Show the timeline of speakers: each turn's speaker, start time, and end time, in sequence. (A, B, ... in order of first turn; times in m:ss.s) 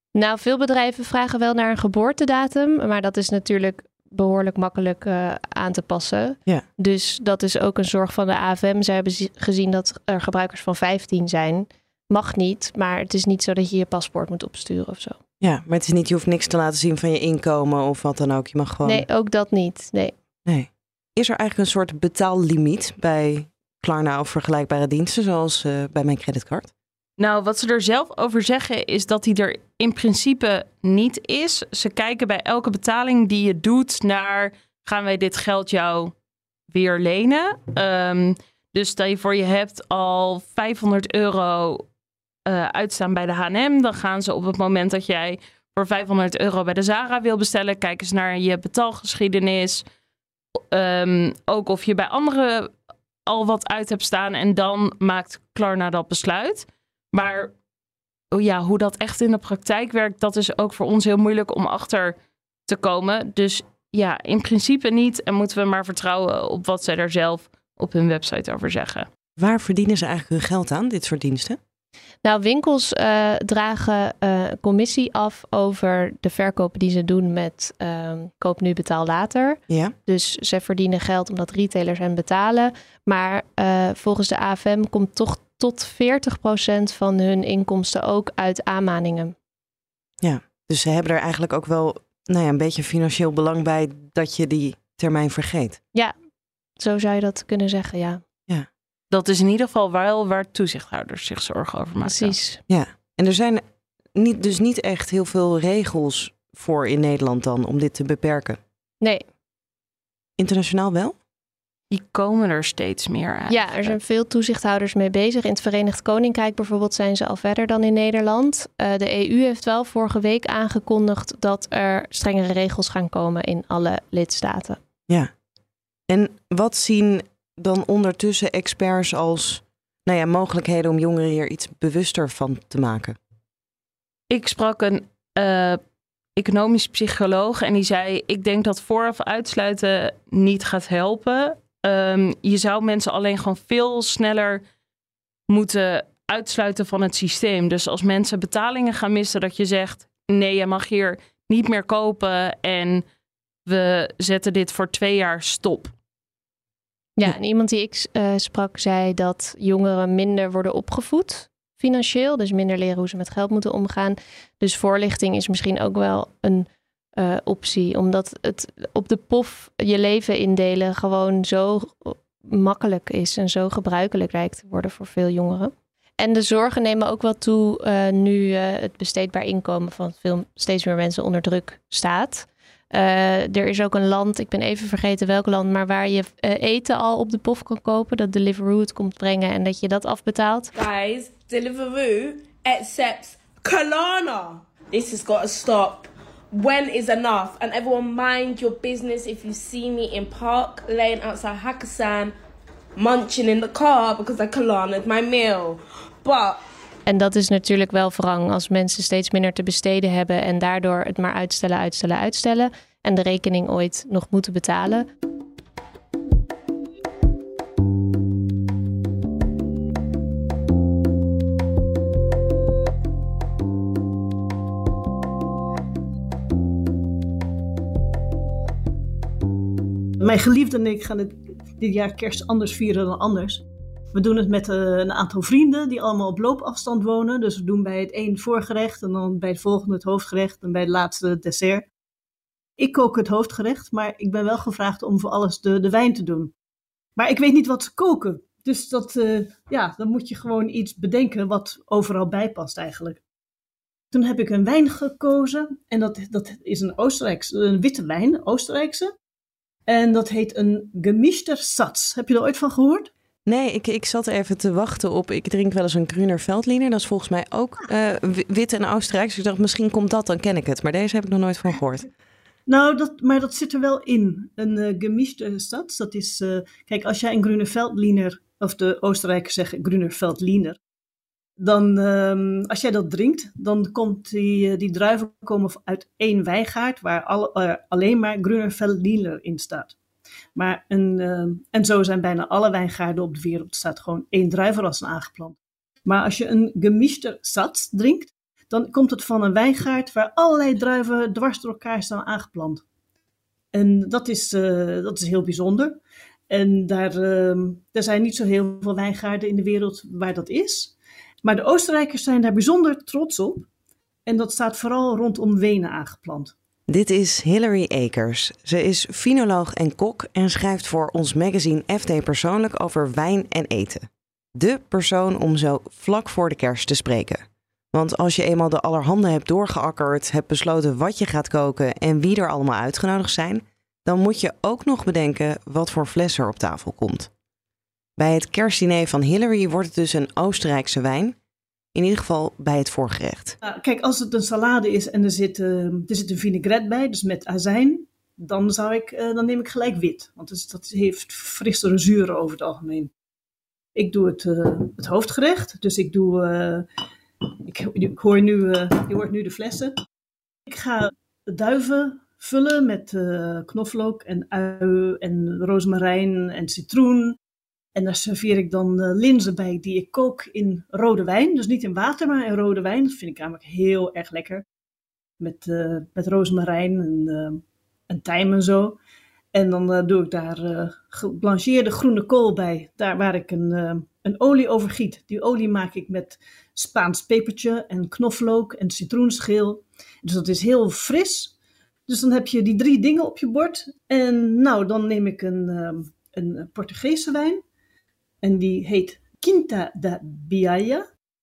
0:00.2-0:15.2 A
0:15.4-0:19.1 B
0:18.8-0:20.2 A
0:20.5-0:26.7 B
0:27.2-0:36.1 C
0:36.7-0:41.8 C
0:42.5-0:49.8 C
0:50.7-0:52.7 C
0:53.3-0:57.5 C
0:58.3-1:02.2 C
1:02.7-1:09.1 C
1:09.4-1:11.6 B
1:12.2-1:29.4 A
1:19.7-1:19.9 B
1:30.2-1:35.8 B
1:36.8-1:38.2 A
1:39.1-1:42.4 C
1:42.0-1:42.6 A
1:42.7-1:43.6 B
1:44.2-1:48.6 B
1:50.4-1:51.2 B
1:51.9-1:54.0 C
1:53.5-2:04.8 A
2:06.1-2:13.2 B
2:14.3-2:15.8 C
2:16.4-2:24.6 C
2:25.5-2:33.0 C
2:33.7-2:35.9 C
2:37.2-3:10.7 A
3:10.7-3:22.4 D
3:23.0-3:26.6 D
3:27.1-3:35.1 A
3:50.2-4:01.9 E
4:02.8-4:06.5 E
4:07.2-4:13.2 E
4:14.1-4:19.1 E
4:19.9-4:23.1 E
4:23.5-4:32.1 B
4:32.7-4:40.8 E
4:41.6-4:50.0 E
4:50.6-5:02.8 E
5:03.7-5:06.0 E
5:06.5-5:13.7 E
5:14.3-5:16.5 E
5:16.9-5:37.3 B
5:38.2-5:41.4 B
5:41.9-5:43.6 B
5:43.6-5:53.1 E
5:54.0-5:56.9 E
5:57.4-6:00.0 E
6:00.7-6:07.4 E
6:08.0-6:14.6 E
6:15.4-6:19.0 E
6:19.5-6:31.5 E
6:32.1-6:37.6 E
6:38.4-6:41.1 E